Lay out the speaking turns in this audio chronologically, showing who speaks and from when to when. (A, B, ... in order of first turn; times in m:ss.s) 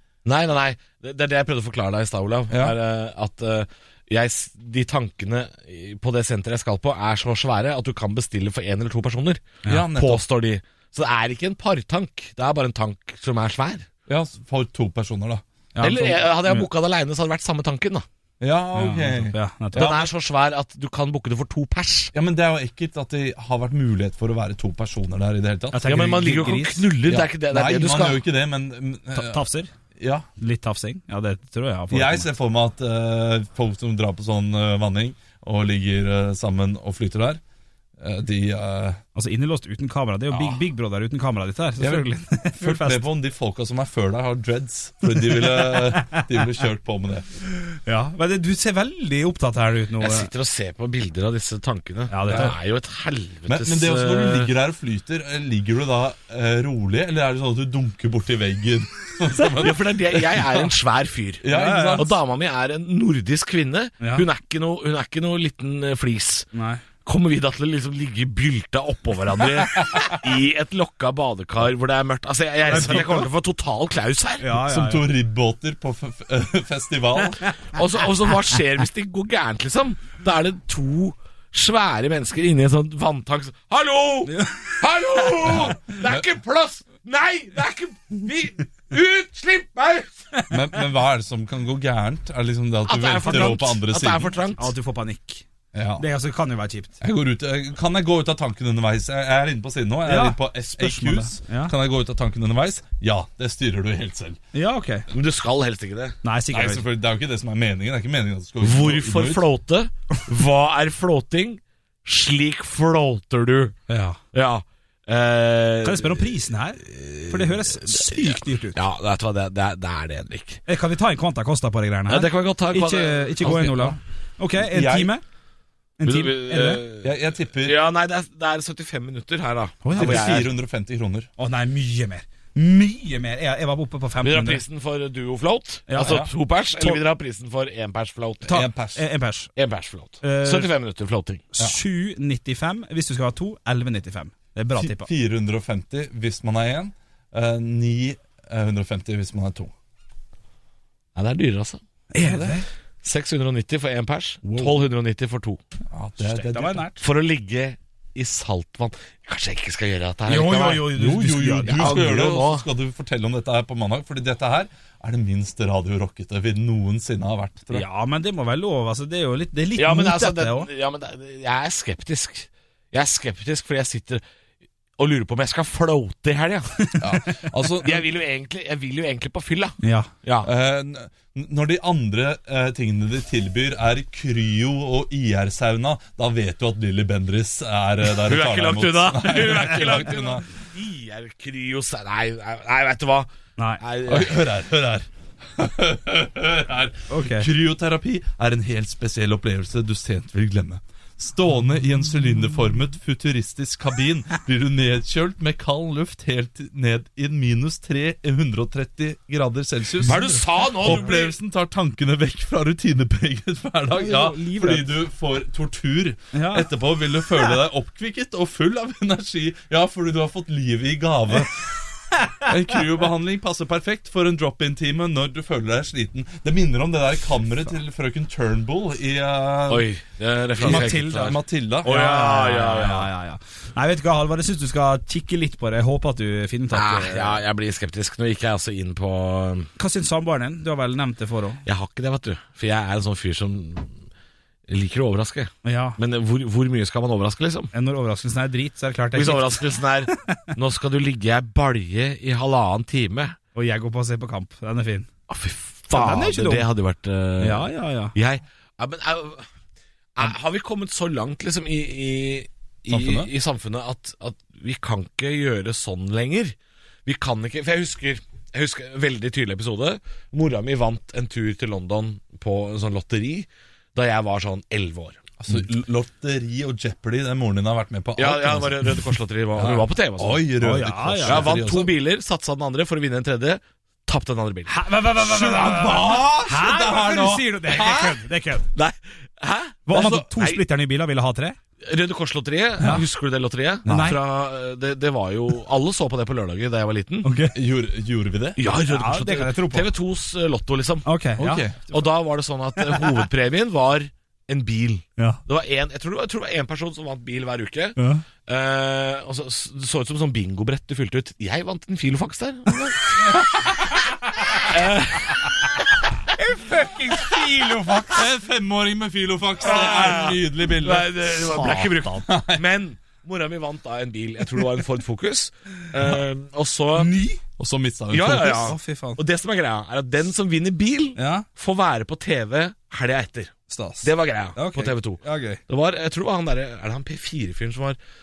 0:00.2-0:13.9 A
0:02.5-0:02.8 B
0:09.7-0:10.2 B
0:14.1-0:15.4 B
0:15.8-0:16.7 C
0:15.8-0:18.1 A
0:18.4-0:20.1 B
0:18.8-0:20.0 C
0:19.8-0:22.1 A
0:22.1-0:25.9 B
0:25.7-0:26.9 C
0:25.9-0:28.2 A
0:27.0-0:29.4 B
0:29.2-0:29.7 C
0:30.0-0:30.3 B
0:30.4-0:32.3 C
0:31.9-0:37.4 B
0:38.0-0:39.0 B
0:39.2-0:43.1 C
0:40.3-0:40.6 B
0:41.8-0:47.4 B
0:45.2-0:46.3 C
0:47.8-0:50.3 C
0:50.0-0:54.5 A
0:52.1-0:52.6 C
0:53.5-1:00.6 B
0:59.3-0:59.6 C
0:59.6-1:06.5 A
1:01.4-1:02.2 B
1:01.5-1:02.1 C
1:06.6-1:06.8 C
1:07.0-1:14.6 A
1:12.7-1:13.3 C
1:12.7-1:13.0 B
1:14.4-1:15.1 C
1:14.6-1:17.5 B
1:17.7-1:30.3 A
1:24.3-1:24.8 C
1:25.7-1:26.3 B
1:30.5-1:34.3 B
1:32.9-1:34.7 A
1:33.3-1:33.6 C
1:34.6-1:35.4 C
1:35.7-1:36.0 B
1:36.0-1:37.0 C
1:37.0-1:44.4 B
1:40.1-1:41.7 C
1:44.5-1:45.1 C
1:45.1-1:46.2 A
1:46.2-1:46.9 C
1:46.5-1:49.5 B
1:48.6-1:53.8 A
1:53.9-1:54.2 C
1:54.3-2:00.6 A
1:55.8-1:58.8 C
2:00.7-2:05.2 C
2:02.1-2:04.0 A
2:03.5-2:03.8 B
2:04.6-2:05.1 B
2:06.0-2:06.8 C
2:06.0-2:10.5 A
2:07.0-2:07.8 B
2:09.8-2:10.5 C
2:10.0-2:11.3 B
2:11.4-2:14.6 C
2:14.2-2:18.6 A
2:15.9-2:17.0 C
2:16.0-2:16.3 B
2:18.4-2:19.5 C
2:18.5-2:19.0 B
2:19.6-2:21.5 A
2:20.2-2:20.7 C
2:21.6-2:25.1 C
2:24.8-2:29.7 B
2:31.2-2:31.8 A
2:32.1-2:32.7 C
2:32.2-2:32.6 B
2:33.0-2:35.6 A
2:34.4-2:34.7 C
2:35.9-2:36.8 B
2:36.2-2:37.0 C
2:37.0-2:40.9 A
2:40.3-2:42.1 C
2:40.9-2:47.9 B
2:41.7-2:42.7 A
2:47.7-2:50.7 C
2:49.8-2:54.2 A
2:55.0-2:57.1 A
2:56.8-2:57.4 C
2:57.0-2:58.1 B
2:57.8-3:00.5 A
2:59.8-3:00.1 C
3:00.4-3:10.4 B
3:08.1-3:13.3 A
3:13.8-3:14.4 A
3:14.1-3:41.7 B
3:17.1-3:17.5 C
3:30.0-3:31.3 A
3:33.9-3:34.9 C
3:36.3-3:36.7 C
3:42.4-3:49.9 B
3:49.7-3:53.1 A
3:50.6-3:52.0 B
3:50.6-3:57.4 C
3:56.7-3:59.7 A
3:59.8-4:01.6 C
4:01.7-4:03.9 A
4:04.7-4:07.7 A
4:05.6-4:06.0 C
4:07.7-4:10.5 C
4:09.1-4:13.4 A
4:13.6-4:15.1 C
4:15.3-4:19.5 A
4:15.9-4:16.7 C
4:17.4-4:18.1 C
4:20.2-4:35.3 A
4:22.9-4:23.3 B
4:35.4-4:41.9 B
4:38.2-4:40.5 A
4:40.6-4:41.5 C
4:41.2-4:44.8 A
4:44.7-4:48.7 C
4:45.2-4:48.2 B
4:48.8-4:50.6 A
4:49.9-4:51.6 C
4:49.9-4:50.3 B
4:51.8-4:57.3 A
4:53.8-4:54.1 B
4:53.9-4:54.2 C
4:57.2-4:57.6 C
4:57.5-4:58.6 B
4:58.6-5:01.1 A
4:58.8-4:59.9 C
5:01.0-5:02.0 C
5:01.4-5:01.8 B
5:01.9-5:13.4 A
5:02.8-5:03.2 C
5:08.0-5:08.2 C
5:13.3-5:13.7 B
5:14.6-5:15.5 A
5:16.4-5:18.3 C
5:18.1-5:21.7 B
5:19.6-5:27.1 A
5:19.8-5:20.3 C
5:21.5-5:22.2 C
5:22.2-5:22.6 B
5:27.0-5:27.4 C
5:27.6-5:28.8 B
5:28.1-5:38.0 A
5:28.6-5:29.2 C
5:31.2-5:31.5 C
5:33.7-5:35.6 C